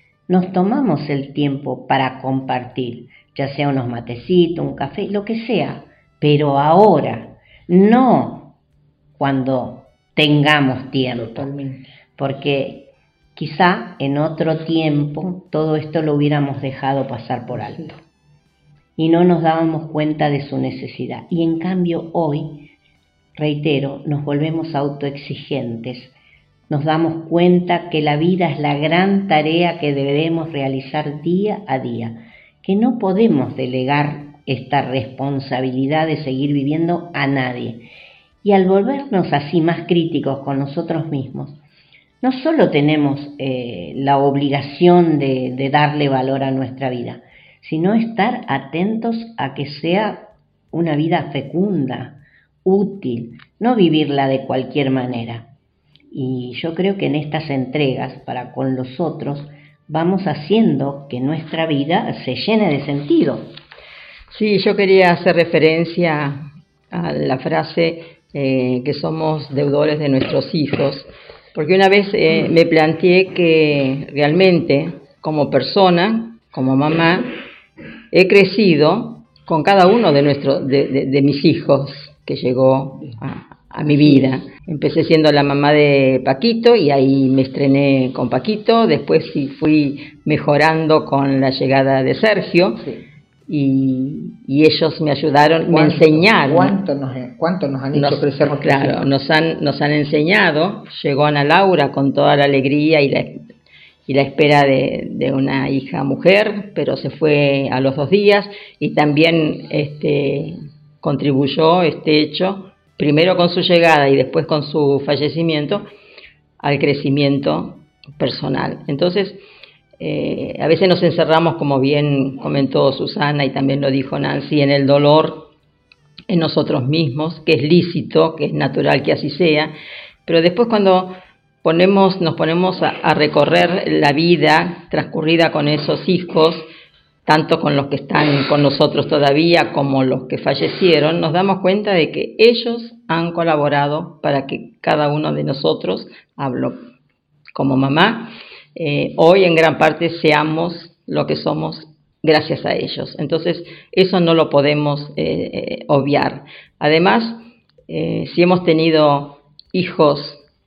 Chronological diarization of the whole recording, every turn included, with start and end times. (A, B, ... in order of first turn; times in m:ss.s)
0:00.3-0:08.6 A
0:09.2-0:11.5 A
0:11.1-0:11.9 B
0:12.2-0:18.0 A
0:17.5-0:18.0 B
0:19.0-0:22.7 A
0:23.4-0:26.1 A
0:26.7-0:37.9 A
0:38.4-0:41.6 A
0:42.2-0:55.5 A
0:56.1-1:03.5 A
1:04.3-1:17.3 C
1:18.1-1:32.8 C
1:23.9-1:24.3 B
1:32.8-1:33.0 B
1:33.5-1:36.8 C
1:35.7-1:39.1 B
1:37.9-1:43.4 C
1:44.1-1:55.9 C
1:56.6-1:59.4 C
2:00.0-2:05.5 C
2:06.3-2:09.7 C
2:10.3-2:16.7 C
2:17.3-2:26.8 C
2:27.5-2:40.4 C